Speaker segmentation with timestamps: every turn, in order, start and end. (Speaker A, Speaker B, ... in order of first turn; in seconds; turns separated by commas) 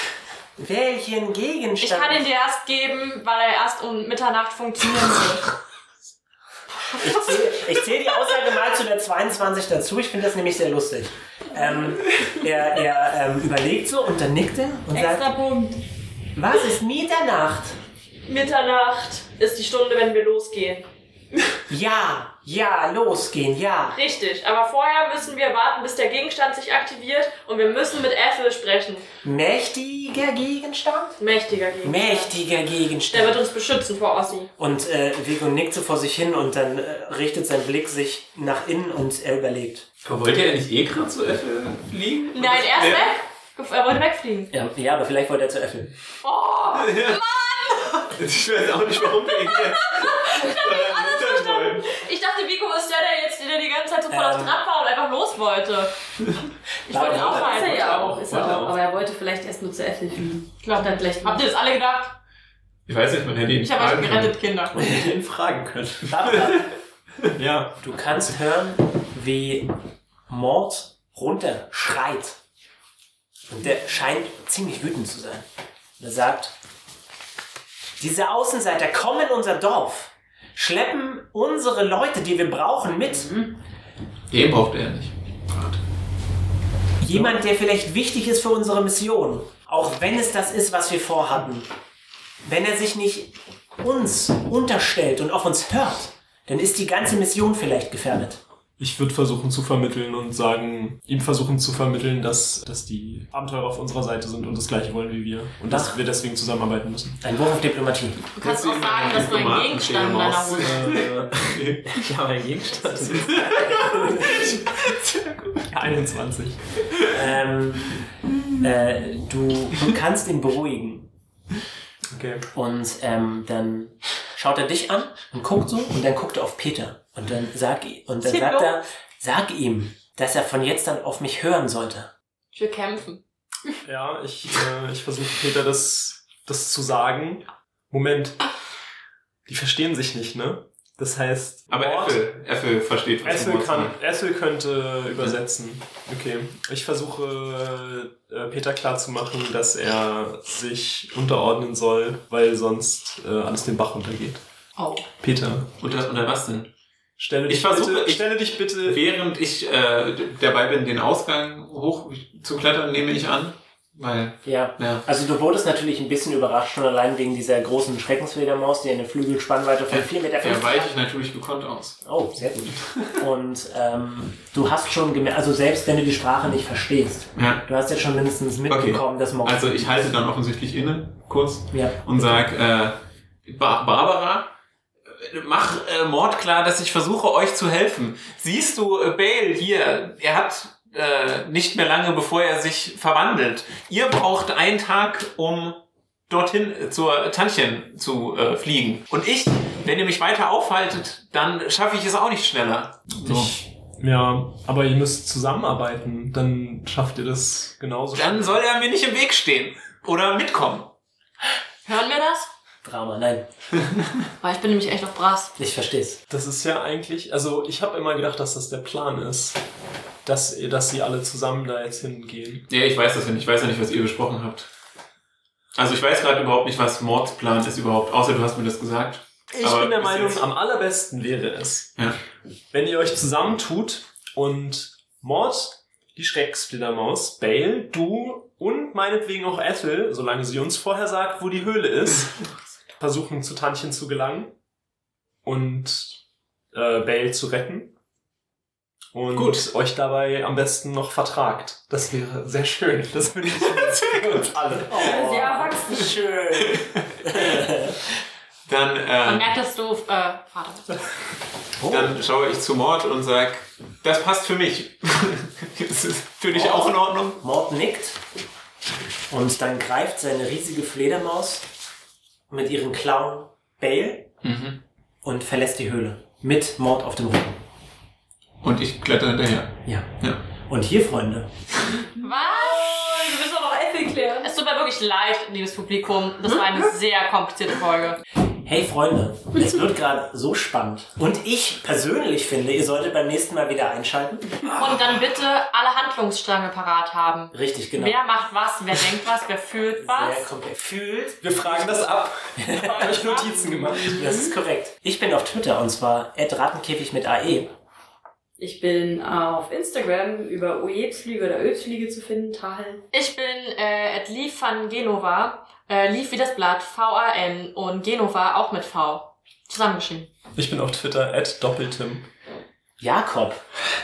Speaker A: 0.6-2.2, Speaker B: 1.8-5.5, Speaker A: 7.0-15.3, Speaker C: 14.9-15.8, Speaker A: 16.3-17.8, Speaker B: 18.3-20.9, Speaker A: 21.7-24.0, Speaker B: 23.9-29.0, Speaker A: 29.2-31.2, Speaker B: 31.2-32.3, Speaker A: 31.8-33.4, Speaker B: 33.1-34.5, Speaker A: 34.6-39.9, Speaker D: 40.0-43.2, Speaker B: 42.3-44.5, Speaker A: 44.5-45.9, Speaker B: 46.2-48.0, Speaker D: 46.7-47.2, Speaker D: 47.8-51.9, Speaker B: 49.1-55.9, Speaker A: 54.1-54.6, Speaker B: 56.9-58.2, Speaker A: 56.9-57.5, Speaker C: 56.9-61.4, Speaker E: 57.0-58.8, Speaker B: 60.6-62.1, Speaker D: 62.9-64.3, Speaker B: 63.6-64.8, Speaker E: 64.7-66.3, Speaker A: 64.8-65.1, Speaker A: 66.0-66.7, Speaker D: 66.2-66.7, Speaker E: 67.4-67.7, Speaker A: 67.8-69.7, Speaker A: 70.3-72.4, Speaker A: 73.5-75.5, Speaker A: 76.0-76.5, Speaker A: 78.0-83.3, Speaker C: 83.1-83.6, Speaker D: 84.3-85.8, Speaker A: 87.0-91.7, Speaker A: 92.4-98.4, Speaker E: 98.8-107.2, Speaker A: 105.7-106.0, Speaker A: 107.2-108.2, Speaker B: 108.3-111.0, Speaker D: 108.4-112.1, Speaker E: 110.5-114.7, Speaker D: 112.8-115.7, Speaker A: 113.1-114.5, Speaker E: 115.7-116.6, Speaker A: 117.1-118.0, Speaker A: 118.6-121.1, Speaker E: 122.1-122.4, Speaker A: 122.5-132.1, Speaker B: 128.2-128.8, Speaker B: 132.5-133.2, Speaker E: 133.8-138.4, Speaker E: 139.4-142.2, Speaker D: 141.7-143.9, Speaker E: 143.2-154.4, Speaker B: 154.8-155.1, Speaker E: 155.2-155.7, Speaker D: 155.8-156.7, Speaker E: 157.2-159.0, Speaker D: 157.5-165.0, Speaker A: 164.4-171.0, Speaker D: 169.9-172.0, Speaker A: 172.0-180.1, Speaker D: 172.6-173.2, Speaker D: 177.3-177.6, Speaker D: 178.7-184.5, Speaker A: 181.7-182.5, Speaker D: 185.1-203.5, Speaker E: 203.2-208.6, Speaker D: 208.1-210.9, Speaker B: 211.8-212.5, Speaker A: 212.8-213.4, Speaker D: 213.8-214.2, Speaker B: 214.4-215.5, Speaker A: 215.6-216.2, Speaker E: 216.3-219.6, Speaker E: 220.2-222.7, Speaker D: 222.7-224.7, Speaker D: 225.7-230.4, Speaker E: 229.5-231.9, Speaker E: 232.7-242.5, Speaker E: 243.0-244.5, Speaker E: 245.4-246.2, Speaker E: 246.7-247.9, Speaker E: 249.1-255.0, Speaker D: 249.3-249.6, Speaker D: 253.5-255.2, Speaker C: 254.9-256.1, Speaker A: 254.9-258.0, Speaker D: 256.6-257.4, Speaker D: 258.6-259.5, Speaker B: 259.2-261.0, Speaker A: 261.8-262.2, Speaker D: 261.8-267.4, Speaker A: 266.5-268.2, Speaker A: 269.3-271.6, Speaker A: 272.5-274.3, Speaker D: 274.4-274.8, Speaker A: 275.2-277.6, Speaker D: 278.6-280.4, Speaker A: 280.6-281.5, Speaker C: 282.1-284.5, Speaker B: 282.2-283.4, Speaker B: 284.4-288.2, Speaker A: 288.6-295.0, Speaker B: 294.7-300.5, Speaker A: 297.5-298.2, Speaker A: 300.0-303.1, Speaker E: 301.4-304.3, Speaker B: 302.8-303.5, Speaker C: 303.8-304.5, Speaker A: 304.1-307.7, Speaker C: 308.6-313.0, Speaker B: 313.1-320.3, Speaker E: 320.6-322.3, Speaker A: 323.0-323.6